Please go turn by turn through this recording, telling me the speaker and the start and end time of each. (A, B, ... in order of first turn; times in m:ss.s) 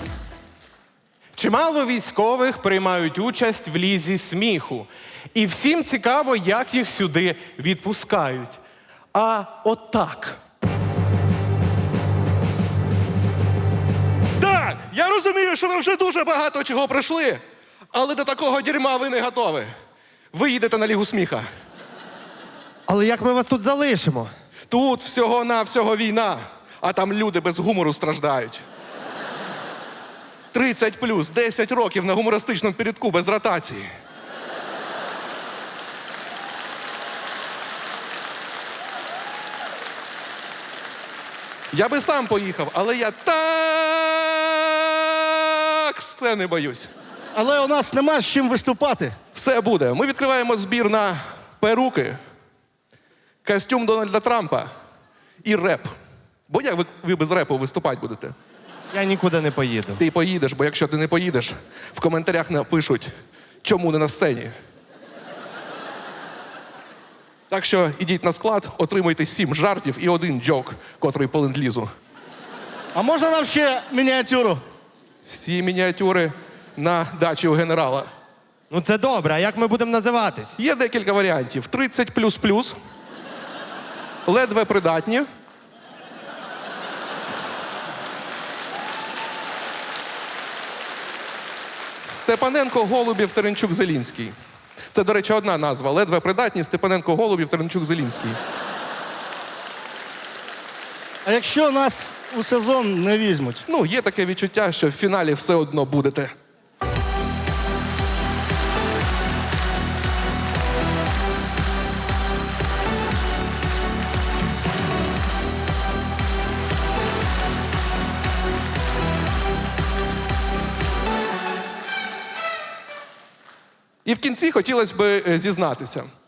0:01.4-0:08.6 A
0:09.1-0:10.4 A
0:14.4-0:17.4 B
0:17.9-0:19.7 B
0:20.3-0:21.5 B
0:22.9-0:24.3 C
0:24.7-0:28.6 B
0:30.5-0:33.9 B
0:41.7-0:46.9 B
0:47.3-0:49.1 D
0:49.3-0:52.2 B
0:53.4-0:54.7 B
0:55.4-0:55.9 B
0:56.5-0:58.3 B
0:58.9-1:00.0 C
0:59.9-1:03.1 B
1:03.6-1:04.5 B
1:07.5-1:11.9 B
1:12.9-1:14.6 D
1:15.3-1:18.1 B
1:18.7-1:20.6 C
1:20.6-1:22.7 B
1:24.2-1:25.3 B
1:32.0-1:34.3 B
1:34.9-1:38.4 B
1:41.2-1:43.6 D
1:43.7-1:46.3 B
2:04.0-2:06.1 B